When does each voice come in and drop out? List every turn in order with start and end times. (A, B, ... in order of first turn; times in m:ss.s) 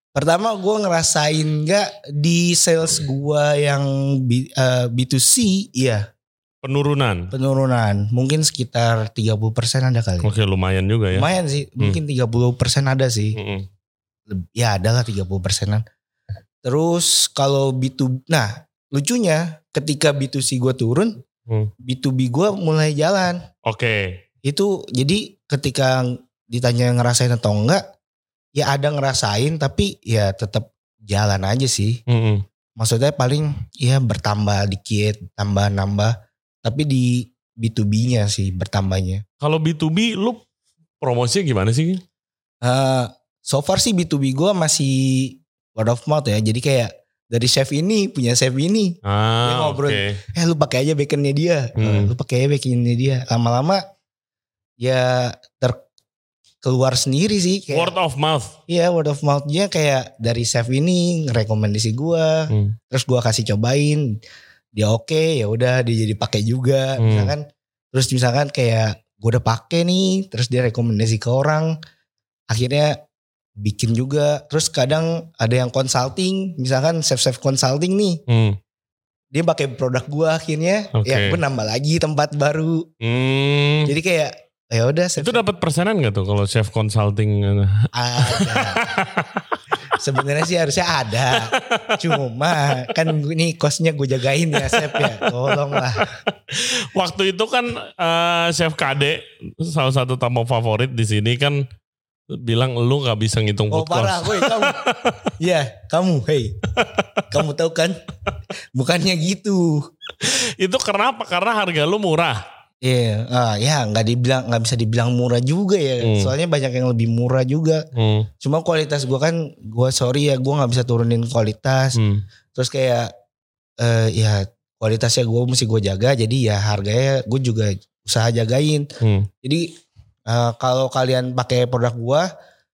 0:00.1-0:06.0 A
0:06.6-0:07.3 B
0:07.3-0:10.3 A
0:10.2-0:11.2 B
0:11.1-0:13.4 A
0:13.3-0:13.7 B
0:14.3-0:15.8 A
0:16.6-0:21.2 A
0:21.8-0:23.4 A
0:23.6-0:24.2 B
0:24.4-0:27.8 A
0:28.5-0:32.0 A
0:32.1-0:32.4 B
0:32.8-0:39.2 A
0:39.4-0:40.4 B
0:41.0-0:42.0 B
0:42.6-0:53.8 A
0:49.0-0:50.2 B
0:51.8-0:52.1 B
0:54.8-0:55.8 A
0:56.6-0:57.9 A
0:57.7-0:58.6 B
0:58.7-1:04.2 A
1:02.5-1:02.7 B
1:04.7-1:11.7 A
1:07.0-1:07.3 B
1:12.5-1:13.0 A
1:13.6-1:18.2 A
1:18.3-1:18.6 B
1:19.3-1:22.8 A
1:20.9-1:21.4 B
1:23.0-1:23.9 B
1:23.8-1:25.4 A
1:25.2-1:29.6 B
1:27.9-1:28.9 A
1:29.9-1:36.1 A
1:31.3-1:32.2 B
1:32.7-1:33.0 B
1:34.5-1:41.6 B
1:42.3-1:45.3 B
1:43.7-1:44.8 A
1:45.4-1:46.6 A
1:46.8-1:47.3 B
1:47.3-1:48.0 A
1:48.7-1:49.8 A
1:50.2-1:52.4 B
1:52.8-1:57.8 A
1:56.0-1:56.3 B
1:57.9-1:58.3 B
1:58.4-2:02.0 A
2:01.9-2:02.2 B
2:02.5-2:03.1 A
2:03.8-2:08.9 A
2:09.0-2:09.3 B
2:09.4-2:09.7 A
2:10.3-2:12.3 A